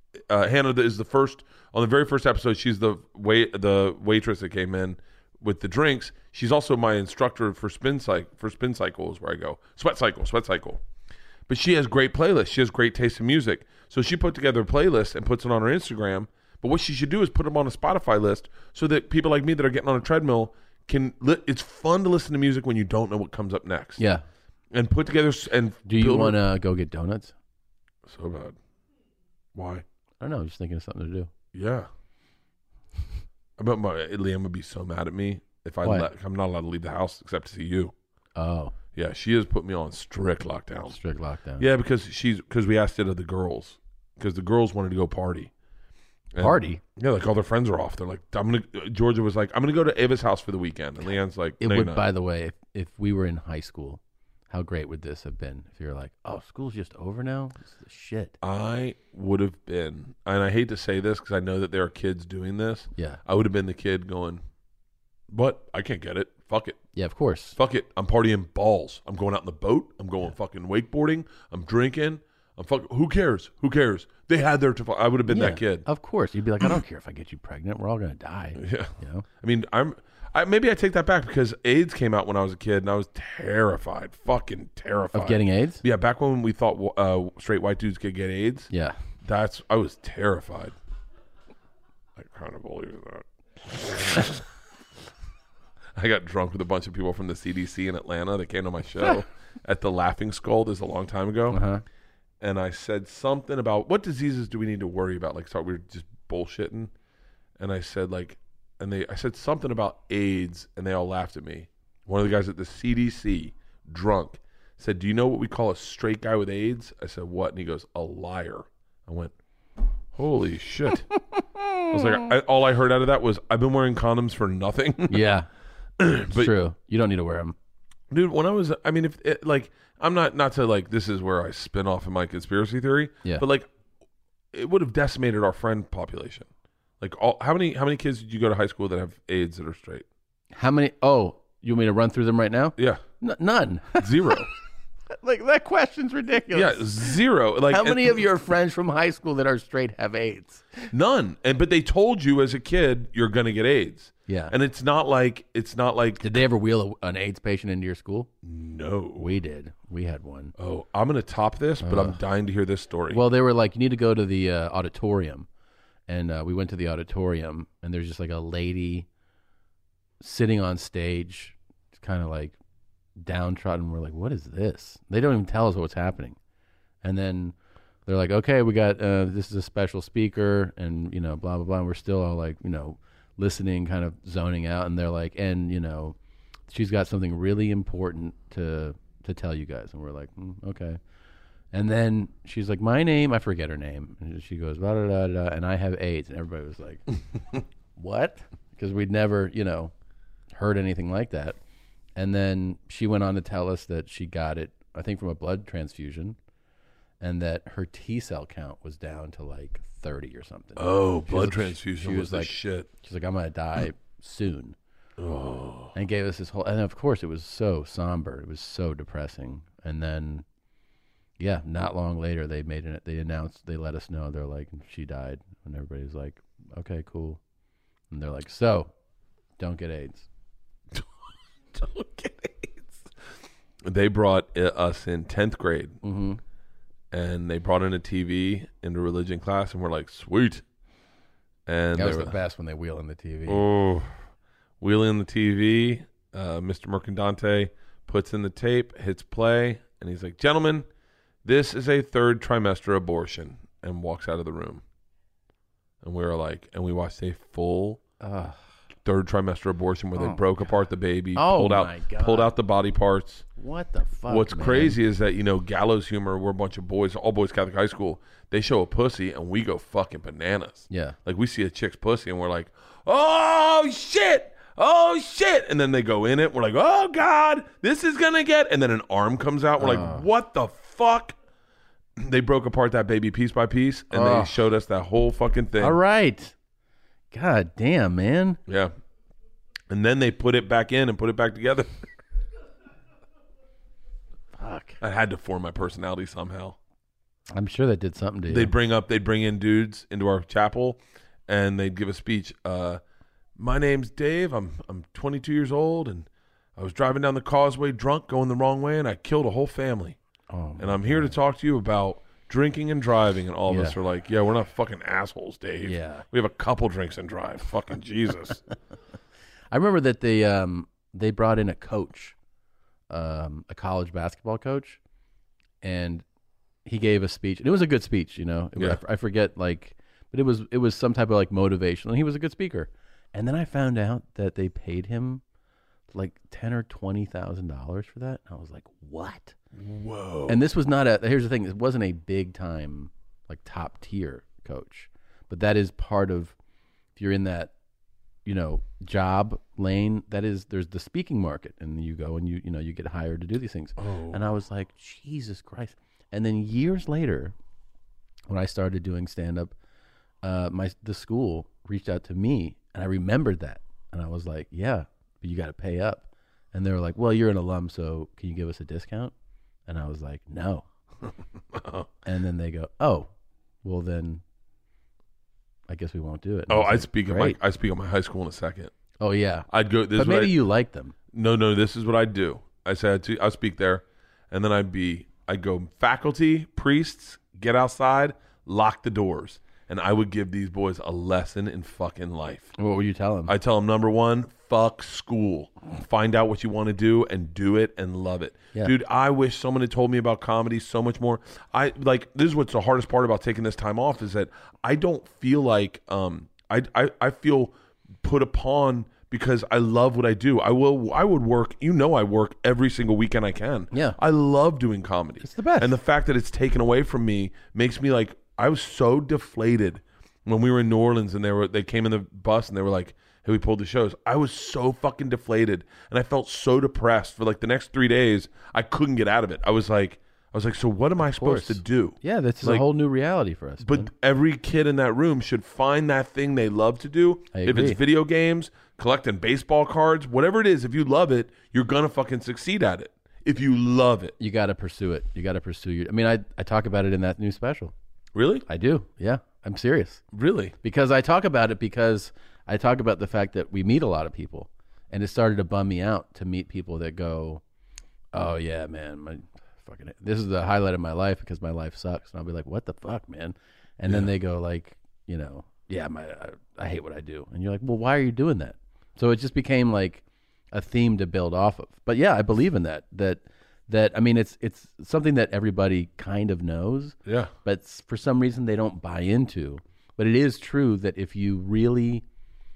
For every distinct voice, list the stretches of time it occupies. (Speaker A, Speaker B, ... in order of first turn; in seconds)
Speaker A: 0.3-10.8, 11.5-24.0, 24.7-26.4, 28.1-28.6, 29.5-29.8, 31.5-31.9, 33.6-37.9, 38.9-41.0, 41.6-45.5, 46.3-52.0, 58.4-64.4, 65.3-66.8, 67.6-75.8, 78.6-88.7, 89.2-90.7, 92.2-94.4, 95.9-101.6, 102.4-106.9, 107.6-119.3, 120.1-121.1, 121.9-125.2, 126.0-126.5, 128.1-133.7, 134.5-136.5, 137.0-140.1, 142.8-143.0, 144.0-144.5, 146.5-148.2, 150.9-156.3, 158.4-159.3, 160.6-163.2, 210.8-212.9, 215.2-215.9, 231.7-233.1, 233.8-236.0, 237.1-240.6, 241.7-242.3, 243.4-244.1, 244.8-250.9, 251.4-254.8, 256.0-258.0, 259.0-263.4, 264.3-281.4, 282.2-286.0, 288.7-288.9, 289.9-292.0, 295.0-296.8, 298.5-303.0, 303.6-310.2, 310.8-318.6, 339.7-340.6, 354.0-354.4, 371.7-372.1, 376.7-378.9, 379.7-380.6, 381.3-392.7, 393.5-432.8, 433.8-444.3, 448.3-448.6, 450.3-450.7, 477.2-477.5
Speaker B: 24.0-24.2, 25.8-27.3, 30.2-31.3, 38.4-38.7, 40.9-41.6, 46.4-46.8, 51.6-58.3, 66.9-67.6, 75.3-79.2, 85.1-85.8, 88.7-89.0, 101.5-101.8, 121.3-122.2, 125.1-125.5, 126.3-127.5, 140.5-144.4, 145.2-147.2, 147.7-150.9, 154.3-154.5, 156.2-158.3, 159.2-160.5, 161.8-162.2, 163.1-165.5, 166.1-169.1, 170.2-172.6, 173.2-176.4, 177.0-177.5, 178.1-186.2, 186.7-191.0, 191.7-197.0, 197.9-199.9, 200.5-201.6, 202.2-206.4, 207.2-214.8, 215.9-220.4, 221.4-227.4, 228.1-228.9, 229.6-230.3, 236.0-236.4, 241.9-243.6, 258.2-258.6, 260.1-260.7, 261.3-262.5, 263.6-265.0, 270.9-271.1, 279.8-280.3, 284.1-284.6, 285.8-286.5, 287.3-288.6, 294.6-295.0, 297.5-298.7, 310.5-311.3, 313.6-313.9, 315.8-316.2, 319.7-322.3, 323.1-325.0, 325.8-326.2, 326.8-335.4, 336.1-339.6, 340.5-346.5, 347.1-347.7, 348.4-357.5, 358.5-359.7, 360.4-369.3, 369.9-370.9, 372.2-373.3, 373.8-374.4, 375.9-377.6, 379.2-381.1, 392.8-393.5, 413.9-414.2, 415.4-415.9, 431.3-434.1, 437.5-438.0, 444.4-447.9, 448.7-450.2, 450.8-457.6, 458.3-482.2